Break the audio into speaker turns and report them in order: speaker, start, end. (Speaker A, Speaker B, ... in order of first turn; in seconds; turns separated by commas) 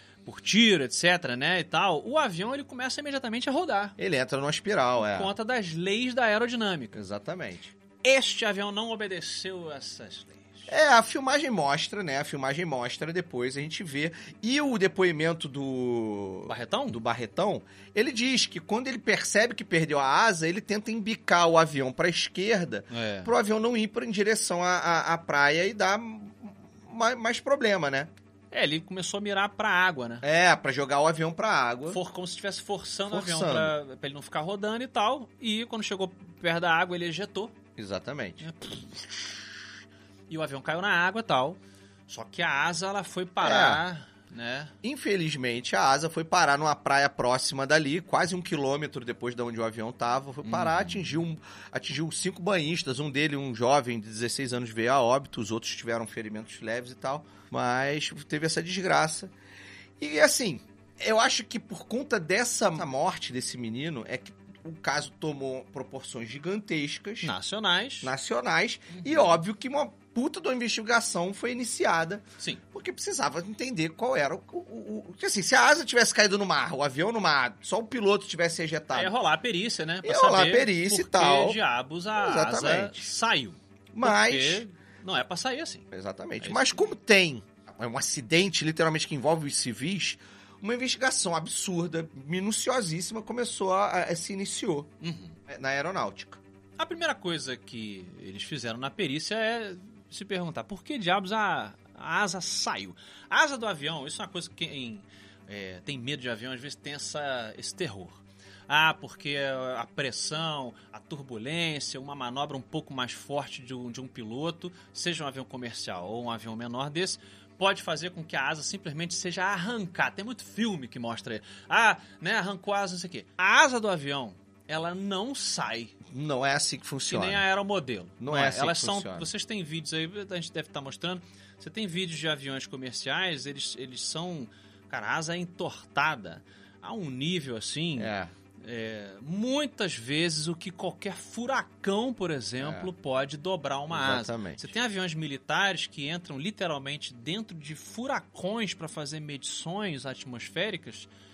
Speaker A: 0.2-4.0, Speaker B: 4.0-5.3, Speaker A: 5.0-7.0, Speaker B: 6.9-7.7, Speaker A: 8.0-10.7, Speaker B: 10.7-28.1, Speaker A: 16.5-17.0, Speaker A: 22.9-23.3, Speaker A: 28.5-30.2, Speaker B: 30.2-32.0, Speaker A: 31.9-37.5, Speaker B: 33.1-33.8, Speaker B: 37.8-38.5, Speaker A: 38.4-39.3, Speaker A: 40.3-44.7, Speaker B: 43.4-43.8, Speaker B: 44.8-59.3, Speaker A: 50.4-51.1, Speaker B: 60.0-67.3, Speaker A: 67.2-68.1, Speaker B: 68.0-79.1, Speaker A: 68.9-69.3, Speaker A: 79.0-85.9, Speaker B: 80.0-81.6, Speaker B: 82.2-83.1, Speaker B: 83.9-84.6, Speaker B: 85.9-94.9, Speaker A: 86.4-86.9, Speaker A: 95.0-95.4, Speaker B: 95.5-96.4, Speaker A: 96.8-126.0, Speaker B: 126.1-127.5, Speaker A: 127.0-151.1, Speaker B: 128.2-129.3, Speaker B: 138.0-138.3, Speaker B: 142.6-142.9, Speaker B: 143.9-144.7